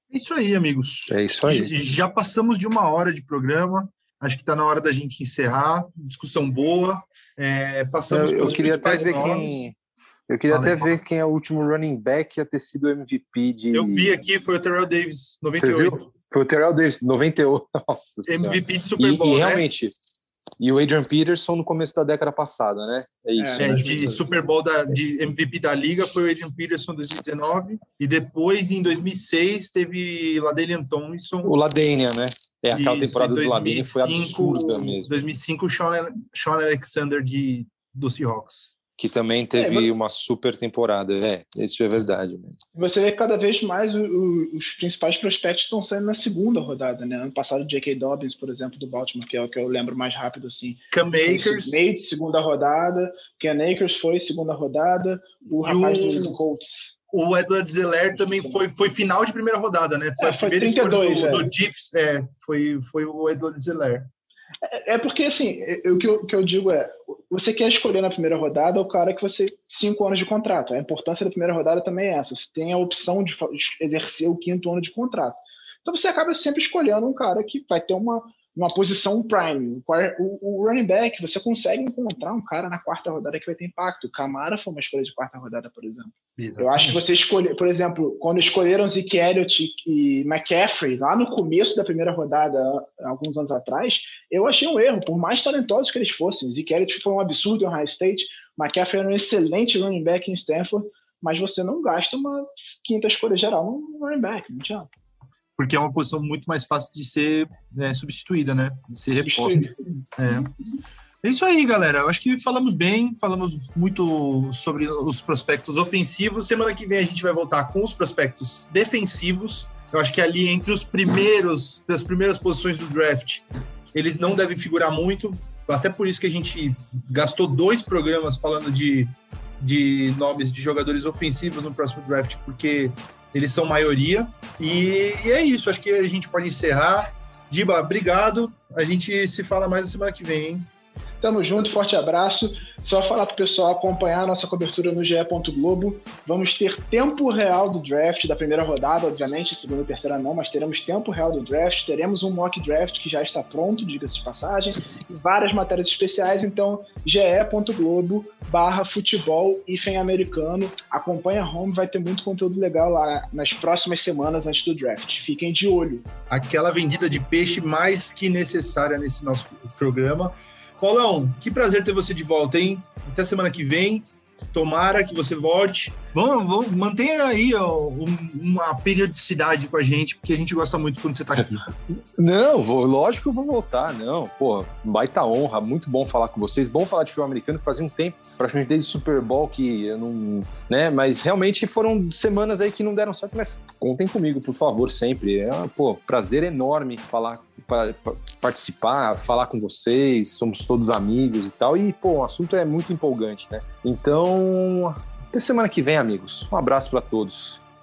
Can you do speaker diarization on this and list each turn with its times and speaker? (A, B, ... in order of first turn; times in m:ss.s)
0:00.1-0:09.6 A
0:01.1-0:01.7 B
0:08.1-0:09.8 B
0:10.3-0:14.2 B
0:10.5-0:11.0 A
0:13.7-0:16.1 A
0:15.6-0:19.9 B
0:18.3-0:19.6 A
0:20.6-0:24.1 B
0:23.4-0:24.2 C
0:23.6-0:31.6 A
0:31.4-0:35.1 B
0:32.7-0:38.7 A
0:39.0-0:42.6 B
0:39.5-0:39.9 C
0:42.7-0:56.9 C
0:50.9-0:51.8 A
0:55.6-0:56.4 A
0:57.1-1:04.1 A
0:58.1-0:58.6 C
1:00.2-1:01.5 C
1:04.6-1:44.9 C
1:26.4-1:27.0 A
1:45.6-1:50.5 A
1:49.2-1:49.9 C
1:51.2-2:20.7 A
2:21.2-2:46.1 C
2:46.3-3:01.7 A
3:02.2-3:27.6 B